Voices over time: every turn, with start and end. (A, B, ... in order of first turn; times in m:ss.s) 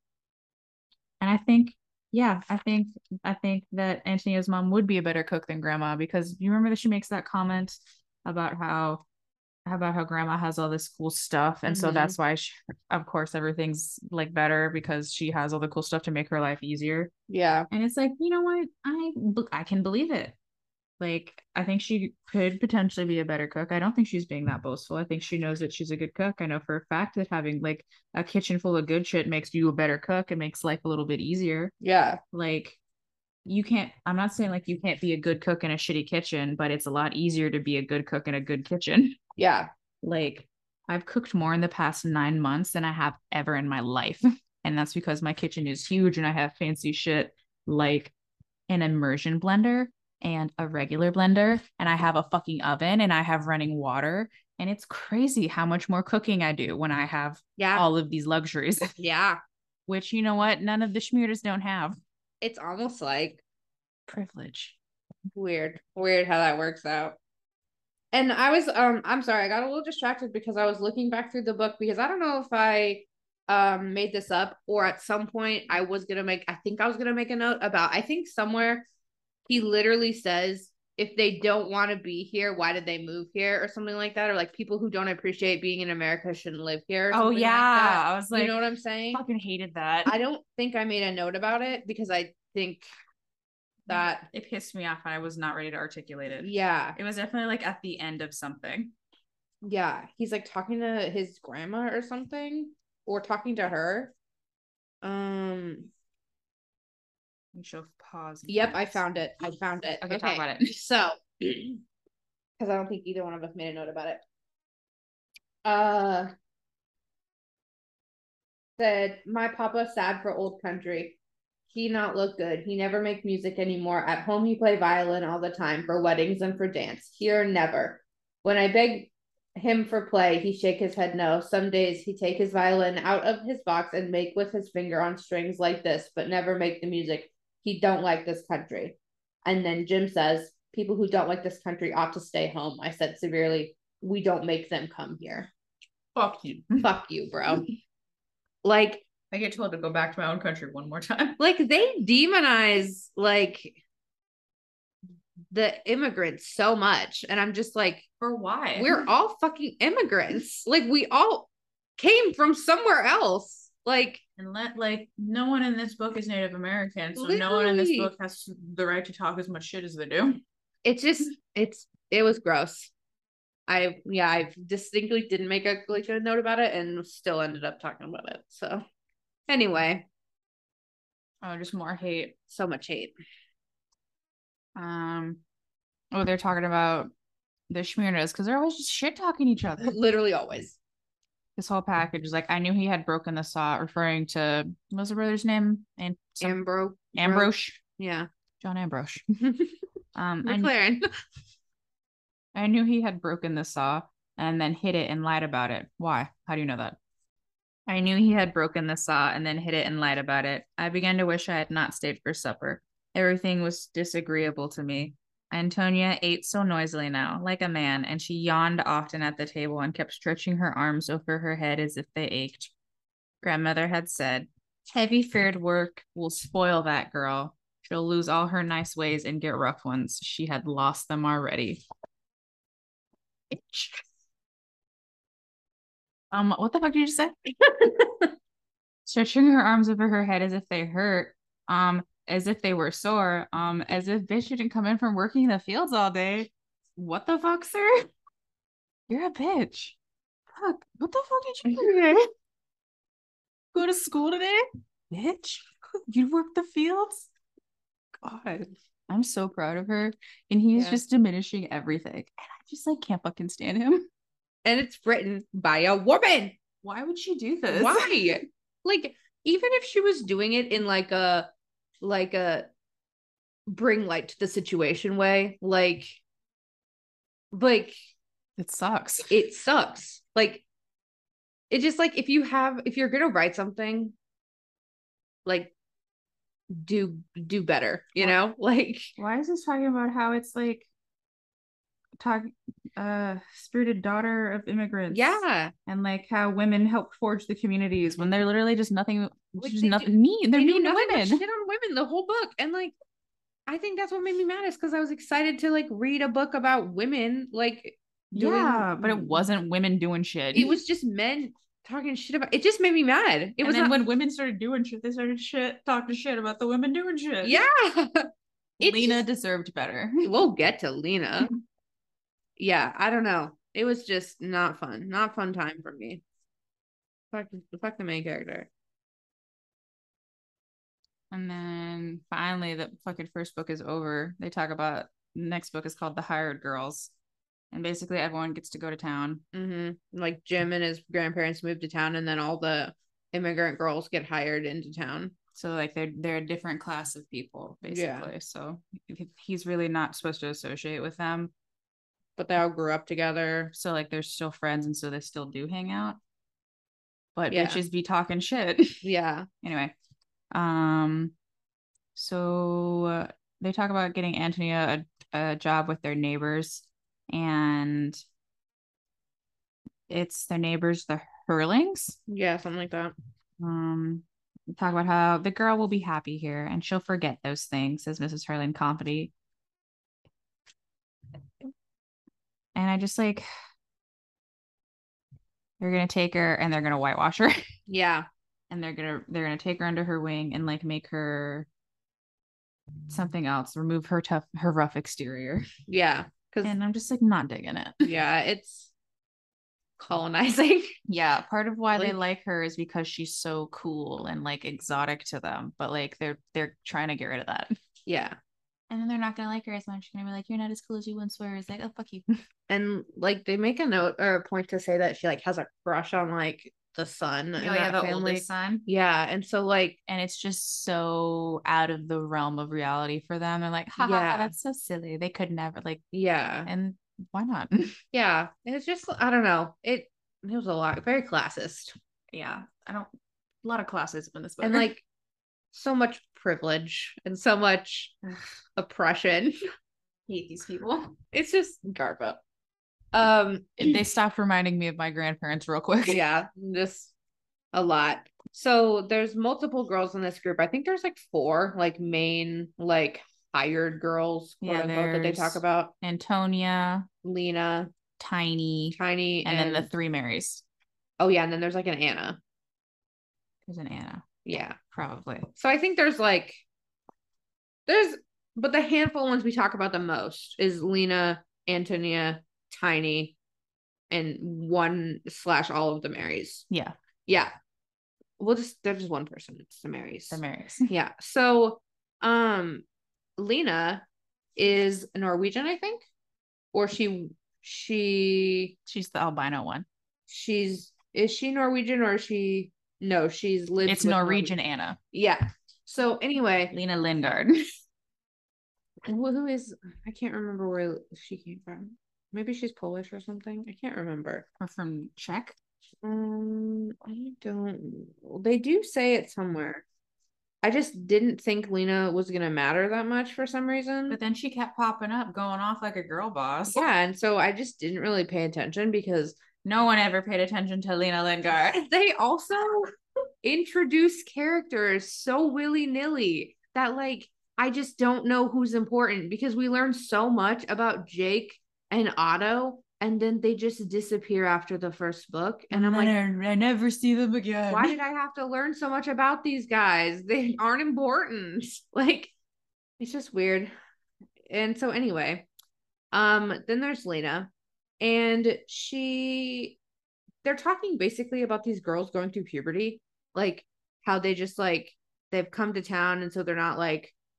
0:01.2-0:09.0 A
0:09.7-0:17.1 A
0:11.7-0:12.2 B
0:17.3-0:17.7 B
0:17.7-0:20.4 A
0:21.0-0:31.7 A
0:31.8-0:32.2 B
0:32.3-0:32.8 A
0:33.5-0:39.2 A
0:39.4-0:39.7 B
0:40.0-0:48.1 A
0:48.7-0:59.0 A
0:57.6-0:57.8 B
0:59.0-0:59.4 B
0:59.9-1:02.0 A
1:02.4-1:03.4 B
1:04.1-1:04.8 A
1:05.3-1:07.2 B
1:08.1-1:18.8 B
1:19.5-1:29.2 B
1:27.1-1:28.6 A
1:29.1-1:30.2 A
1:30.1-1:32.9 B
1:33.9-1:34.3 B
1:33.9-1:38.9 A
1:36.4-1:37.0 B
1:39.6-1:44.1 B
1:45.0-1:45.9 B
1:47.5-1:49.0 A
1:48.5-1:51.8 B
1:50.0-1:50.8 A
1:52.6-1:54.2 B
1:55.6-1:56.3 B
1:58.8-2:01.2 B
2:01.7-2:25.5 B
2:26.2-2:26.9 A
2:26.8-2:27.6 B
2:28.6-2:29.1 B
2:29.3-2:31.4 A
2:31.4-2:33.8 B
2:35.5-2:38.0 B
2:38.2-2:39.0 A
2:38.8-2:44.2 B
2:44.4-2:50.4 A
2:47.2-2:48.1 B
2:50.8-2:52.9 B
2:53.7-2:58.8 B
2:59.5-3:00.1 B
3:01.4-3:02.4 A
3:02.5-3:03.1 B
3:04.8-3:05.4 A
3:06.1-3:07.1 A
3:07.7-3:10.0 A
3:09.8-3:10.8 B
3:11.6-3:16.6 A
3:16.4-3:18.3 B
3:17.2-3:17.8 A
3:18.6-3:19.2 A
3:19.4-3:19.7 B
3:20.2-3:20.7 A
3:20.4-3:21.1 B
3:22.5-3:27.0 A
3:27.9-3:42.7 A
3:43.4-3:51.8 A
3:53.5-3:54.0 A
3:56.3-3:57.4 A
3:57.6-3:58.3 B
3:59.1-4:08.0 A
4:09.1-4:10.0 A
4:10.6-4:12.3 A
4:13.7-4:17.3 A
4:18.2-4:24.1 A
4:20.7-4:21.0 B
4:24.6-4:26.6 B
4:26.8-4:28.2 A
4:27.7-4:31.5 B
4:32.0-4:32.7 B
4:33.7-4:36.2 B
4:37.5-4:38.0 B
4:38.6-4:39.4 A
4:39.3-4:40.6 B
4:41.7-4:44.2 B
4:45.4-4:45.7 B
4:46.7-4:49.1 B
4:49.2-4:50.9 A
4:52.2-5:01.4 A
4:55.1-4:55.7 B
4:59.6-5:02.9 B
5:03.7-5:09.4 B
5:08.3-5:10.7 A
5:10.5-5:14.0 B
5:13.6-5:17.6 A
5:17.4-5:18.2 B
5:18.8-5:19.2 B
5:18.8-5:20.3 A
5:20.2-5:21.5 B
5:22.6-5:26.2 B
5:27.3-5:28.7 B
5:31.3-5:37.1 A
5:37.7-5:39.4 A
5:39.5-5:45.4 B
5:45.6-5:51.5 A
5:47.9-5:48.3 B
5:52.4-5:53.7 B
5:53.7-5:56.2 A
5:57.4-5:59.0 A
5:57.5-5:57.8 B
5:59.0-5:59.5 B
5:59.6-6:00.0 A
6:00.5-6:01.3 A
6:02.2-6:08.2 A
6:10.1-6:12.2 A
6:12.3-6:13.1 B
6:13.6-6:19.3 A
6:22.8-6:23.4 A
6:25.8-6:27.6 A
6:27.9-6:28.3 B
6:28.7-6:31.7 A
6:33.1-6:35.7 A
6:35.9-6:36.8 B
6:36.6-6:38.1 A
6:38.0-6:38.9 B
6:40.0-6:40.9 B
6:41.1-6:47.8 A
6:48.1-6:48.4 B
6:48.9-6:52.3 A
6:52.7-7:00.0 B
6:57.6-6:58.9 A
7:00.1-7:06.0 A
7:04.0-7:04.5 B
7:06.1-7:06.7 B
7:06.7-7:08.0 A
7:08.1-7:12.0 B
7:12.3-7:13.1 A
7:13.6-7:14.9 A
7:14.6-7:15.0 B
7:15.7-7:18.2 B
7:18.8-7:19.6 B
7:20.3-7:21.1 A
7:21.3-7:22.4 B
7:23.1-7:24.0 B
7:23.8-7:26.2 A
7:26.1-7:27.1 B
7:27.7-7:35.9 B
7:34.6-7:37.1 A
7:37.2-7:37.9 B
7:38.2-7:40.6 A
7:39.0-7:39.9 B
7:41.2-7:42.4 B
7:43.7-7:44.2 A
7:44.4-7:44.8 B
7:44.9-7:45.5 A
7:45.6-7:46.6 B
7:47.9-7:53.4 B
7:54.1-7:56.7 B
7:56.7-7:57.0 A
7:57.3-7:57.5 B
7:58.4-8:02.8 B
8:00.3-8:00.9 A
8:03.4-8:04.0 B
8:04.6-8:06.1 B
8:06.7-8:08.8 B
8:08.9-8:09.9 A
8:10.3-8:14.5 B
8:13.8-8:15.0 A
8:15.1-8:16.8 B
8:16.7-8:17.6 A
8:19.0-8:24.4 B
8:24.6-8:25.6 A
8:26.0-8:29.8 B
8:30.6-8:34.2 B
8:34.1-8:36.8 A
8:36.7-8:39.4 B
8:39.6-8:41.8 A
8:41.7-8:42.9 B
8:43.4-8:56.1 B
8:55.7-8:57.9 A
8:57.7-9:02.3 B
9:03.0-9:03.7 B
9:04.5-9:05.5 B
9:06.1-9:09.8 B
9:10.4-9:17.2 B